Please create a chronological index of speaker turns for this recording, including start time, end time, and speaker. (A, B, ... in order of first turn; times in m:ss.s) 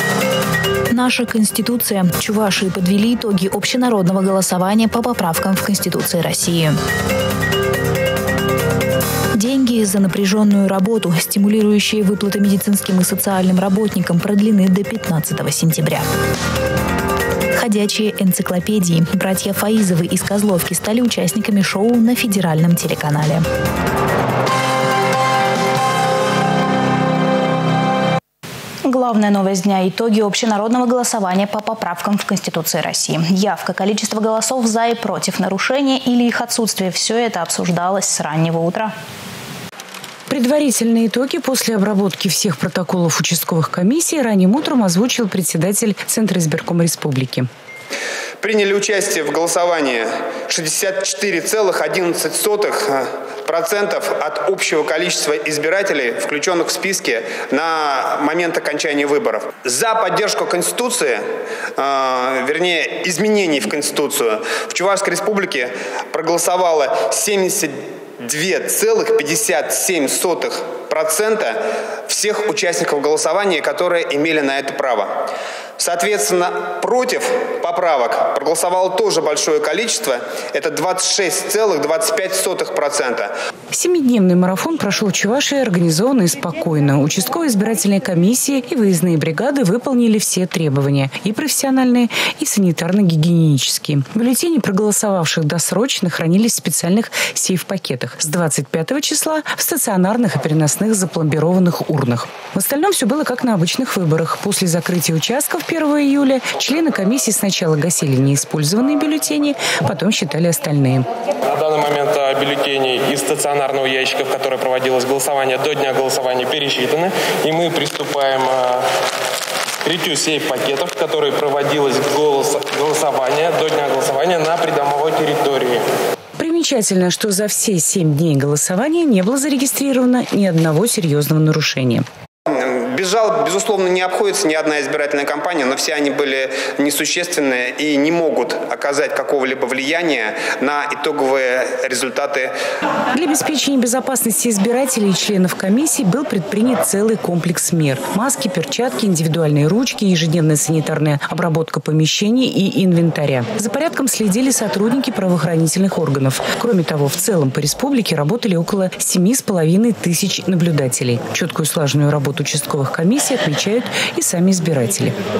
0:00.9-0:06.8 A
0:09.3-0:16.1 A
0:17.5-0:23.4 A
0:28.8-0:38.9 A
0:40.3-0:47.5 B
0:48.4-1:01.2 C
1:01.8-1:15.1 C
1:15.8-1:23.3 C
1:23.7-1:51.1 B
1:51.6-1:58.8 D
1:59.8-2:05.7 D
2:06.4-2:12.0 B
2:12.5-2:22.5 C
2:23.1-2:45.2 B